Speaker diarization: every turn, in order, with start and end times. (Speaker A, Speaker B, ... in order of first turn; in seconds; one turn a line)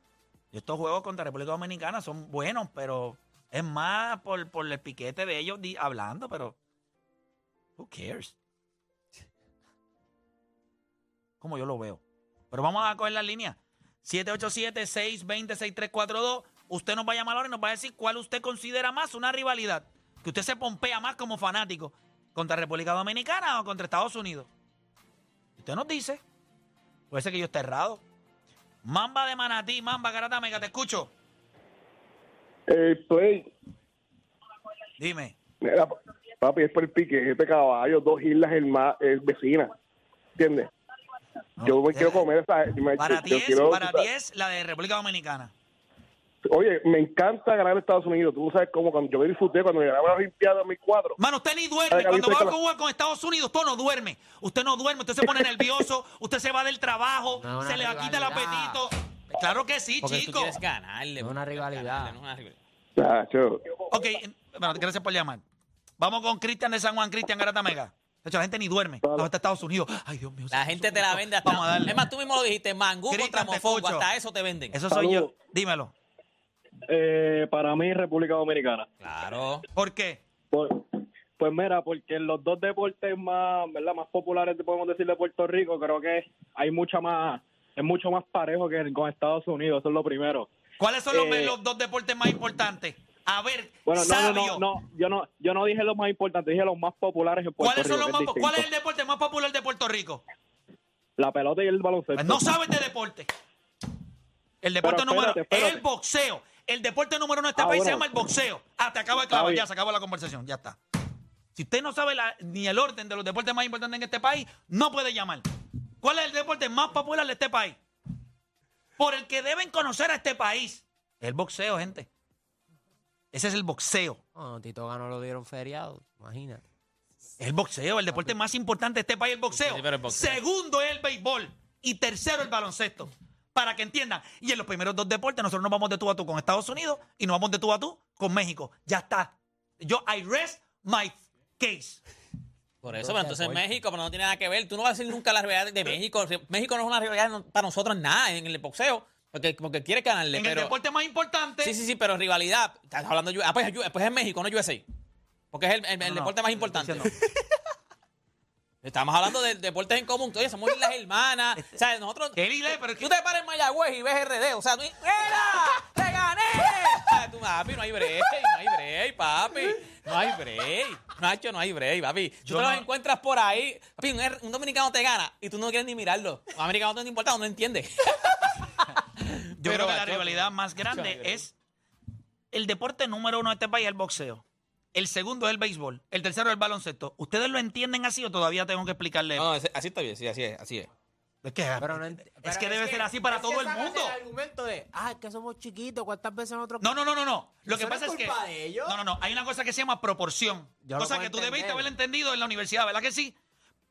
Speaker A: 0.5-6.5
Speaker A: 7.8-8.3
Speaker A: 11.4-24.5
Speaker A: 25.6-26.2
Speaker A: 27.1-28.0
Speaker A: 28.8-31.1
Speaker B: 32.7-33.5
Speaker A: 35.0-35.4
Speaker B: 35.6-39.7
Speaker B: 40.4-40.7
Speaker A: 41.6-42.2
Speaker B: 41.6-44.1
Speaker A: 43.0-45.5
Speaker B: 46.5-51.2
Speaker A: 51.2-60.6
Speaker B: 51.9-52.5
Speaker C: 57.4-58.8
Speaker D: 60.0-62.6
Speaker C: 61.2-62.2
Speaker B: 63.0-63.5
Speaker A: 63.9-65.4
Speaker A: 66.0-72.0
Speaker D: 70.5-74.8
Speaker A: 73.1-74.0
Speaker A: 74.7-75.9
Speaker E: 74.9-75.2
Speaker E: 76.9-78.9
Speaker D: 79.0-79.7
Speaker A: 79.8-80.2
Speaker E: 80.5-80.8
Speaker E: 81.4-90.5
Speaker A: 90.8-94.6
Speaker E: 91.1-91.5
Speaker E: 93.8-98.7
Speaker A: 97.6-100.2
Speaker E: 101.2-102.5
Speaker A: 102.2-103.3
Speaker A: 104.6-110.8
Speaker E: 104.8-105.8
Speaker E: 107.5-108.1
Speaker E: 109.3-109.7
Speaker A: 111.5-115.4
Speaker A: 116.0-117.8
Speaker A: 119.0-122.1
Speaker A: 123.3-124.2
Speaker C: 124.3-126.6
Speaker A: 127.4-142.0
Speaker D: 129.5-130.4
Speaker D: 142.8-150.7
Speaker C: 143.0-143.6
Speaker A: 150.3-151.7
Speaker D: 151.6-154.8
Speaker D: 155.5-157.1
Speaker A: 156.0-157.1
Speaker D: 158.8-181.4
Speaker A: 162.3-163.1
Speaker A: 172.5-172.8
Speaker A: 179.6-181.5
Speaker A: 182.5-184.4
Speaker A: 184.9-189.5
Speaker D: 189.3-190.9
Speaker A: 191.4-194.2
Speaker C: 191.8-196.9
Speaker A: 196.8-203.3
Speaker C: 197.7-199.0
Speaker C: 200.8-201.9